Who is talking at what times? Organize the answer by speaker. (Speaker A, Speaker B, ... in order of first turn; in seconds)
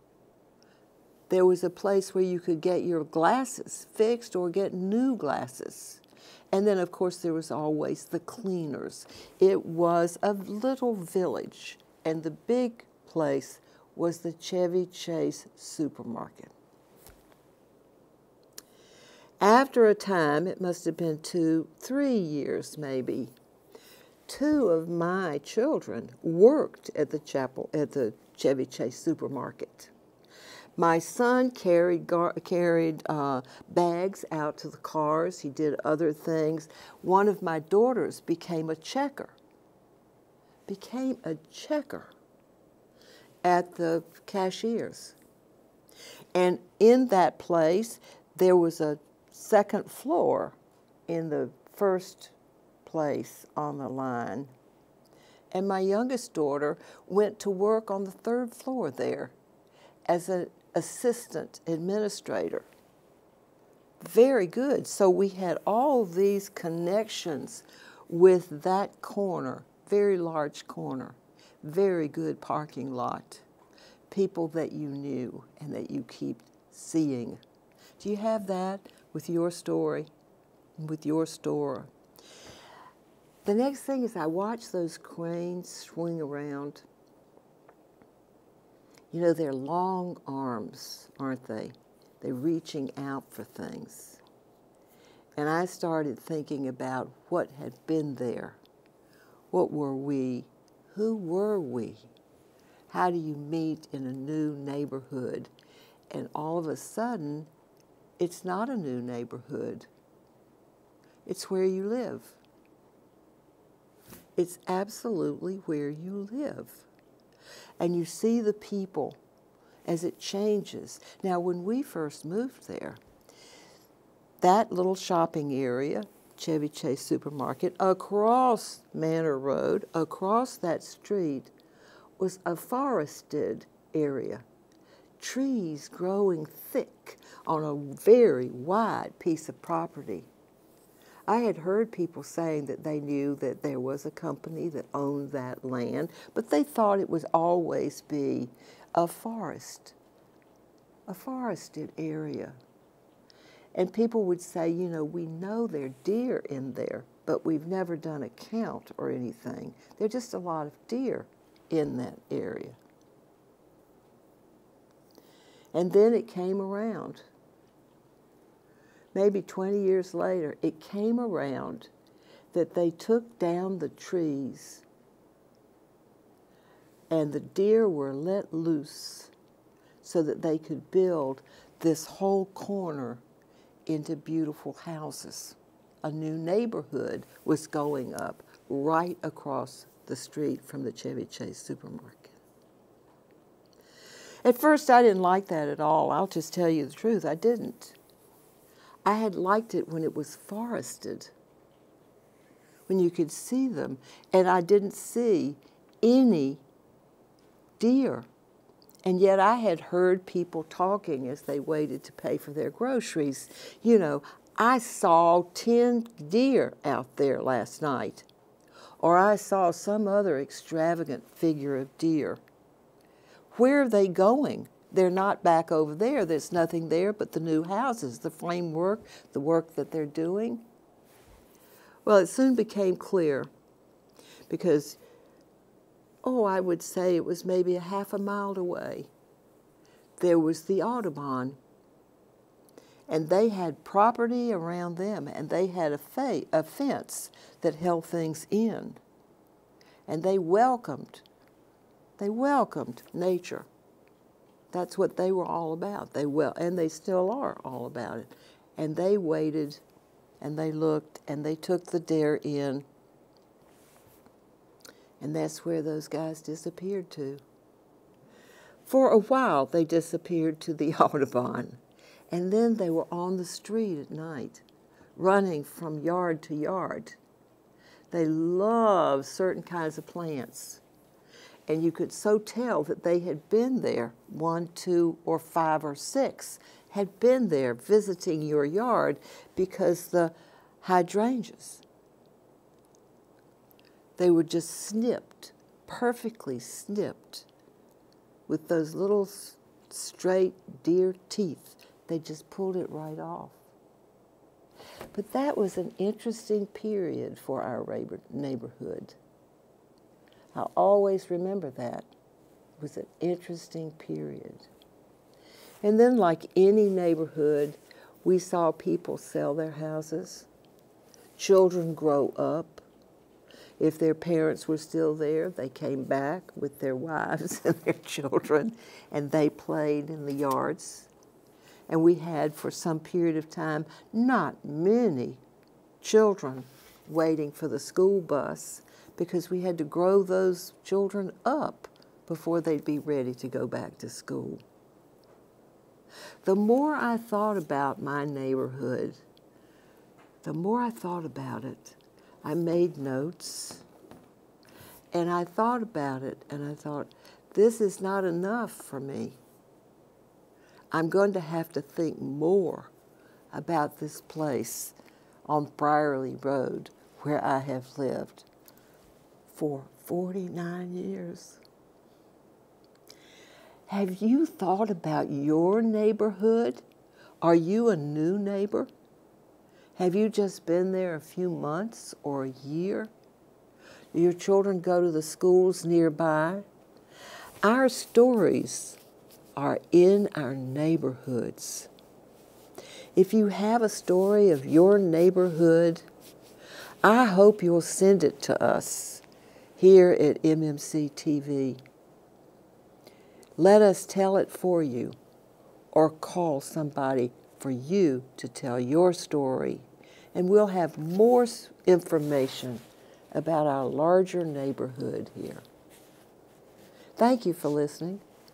Speaker A: 1.3-16.5, 19.4-23.3, 24.3-29.9, 30.8-39.3, 40.7-42.1, 43.4-45.1, 46.3-50.6, 51.1-54.5, 55.5-59.3, 60.1-62.7, 64.0-73.4, 74.1-77.4, 78.0-80.1, 80.8-81.9, 83.4-86.8, 89.1-94.2, 95.3-98.6, 99.5-102.1, 102.9-105.5, 106.1-107.5, 108.2-109.9, 111.2-112.4, 114.3-116.9, 117.8-119.2, 119.8-123.0, 124.4-131.5, 132.2-134.4, 135.2-140.3, 141.3-149.9, 151.1-152.6, 153.7-162.8, 165.7-167.2, 169.1-171.9, 172.5-174.8, 177.1-179.3, 180.0-183.2, 183.9-192.3, 194.4-197.9, 199.0-201.3, 202.9-206.6, 207.8-208.3, 209.0-218.3, 219.0-222.4, 223.5-230.7, 232.0-233.5, 234.5-235.0, 236.2-239.1, 240.2-241.6, 243.1-249.0, 250.1-251.2, 252.2-253.7, 254.7-259.8, 260.4-262.8, 265.2-267.4, 268.8-271.8, 272.3-274.6, 275.1-277.2, 278.1-280.8, 281.7-291.8, 294.2-297.5, 298.5-303.6, 305.1-309.2, 310.5-312.1, 312.8-314.7, 315.8-320.5, 321.4-322.8, 323.8-331.1, 331.9-335.4, 336.0-344.6, 346.4-349.2, 350.4-353.8, 355.1-359.4, 360.9-362.9, 363.5-368.5, 369.5-371.6, 373.9-376.8, 377.4-378.9, 379.9-383.1, 384.1-386.6, 387.6-389.0, 389.6-391.9, 393.1-396.1, 397.0-399.2, 399.8-401.8, 403.6-405.1, 405.9-415.6, 417.1-418.2